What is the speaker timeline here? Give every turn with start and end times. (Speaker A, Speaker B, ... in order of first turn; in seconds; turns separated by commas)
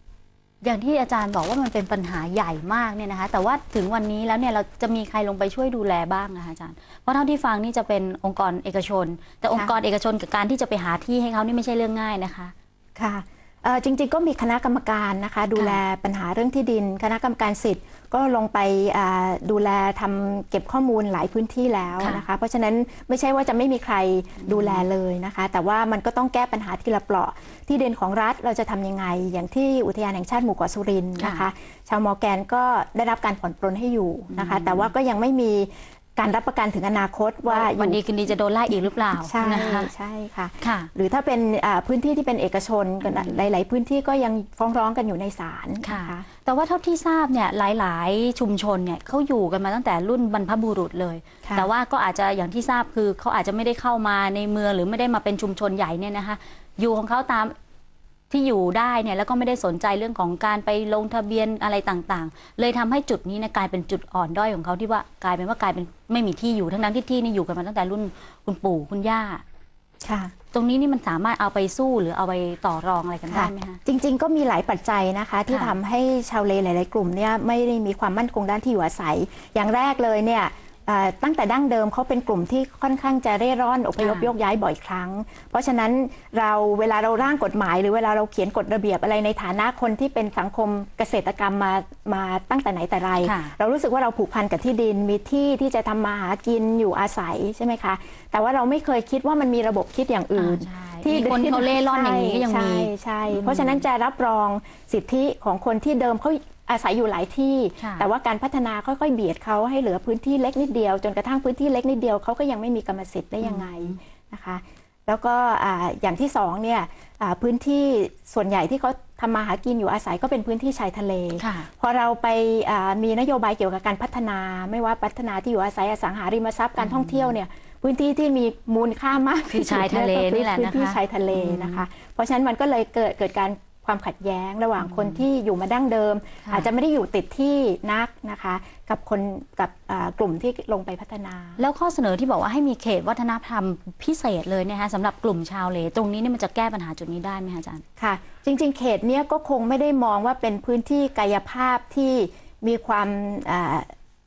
Speaker A: 0.6-12.5, Speaker B: 13.0-38.0, Speaker A: 15.6-15.8, Speaker A: 22.0-22.2, Speaker A: 24.4-24.9, Speaker A: 31.2-31.5, Speaker A: 34.3-34.9, Speaker A: 37.5-39.9, Speaker B: 39.2-46.3, Speaker A: 40.6-40.9, Speaker A: 43.0-43.4, Speaker A: 45.8-57.5, Speaker A: 58.3-69.4, Speaker B: 70.0-70.3, Speaker A: 70.5-73.8, Speaker B: 73.3-141.6, Speaker A: 75.5-75.8, Speaker A: 84.0-84.3, Speaker A: 93.2-93.5, Speaker A: 100.3-103.8, Speaker A: 107.8-108.1, Speaker A: 113.4-114.0, Speaker A: 121.4-121.7, Speaker A: 126.8-127.3, Speaker A: 129.5-131.8, Speaker A: 134.8-135.2, Speaker A: 136.4-136.7, Speaker A: 141.6-147.8, Speaker B: 148.0-153.9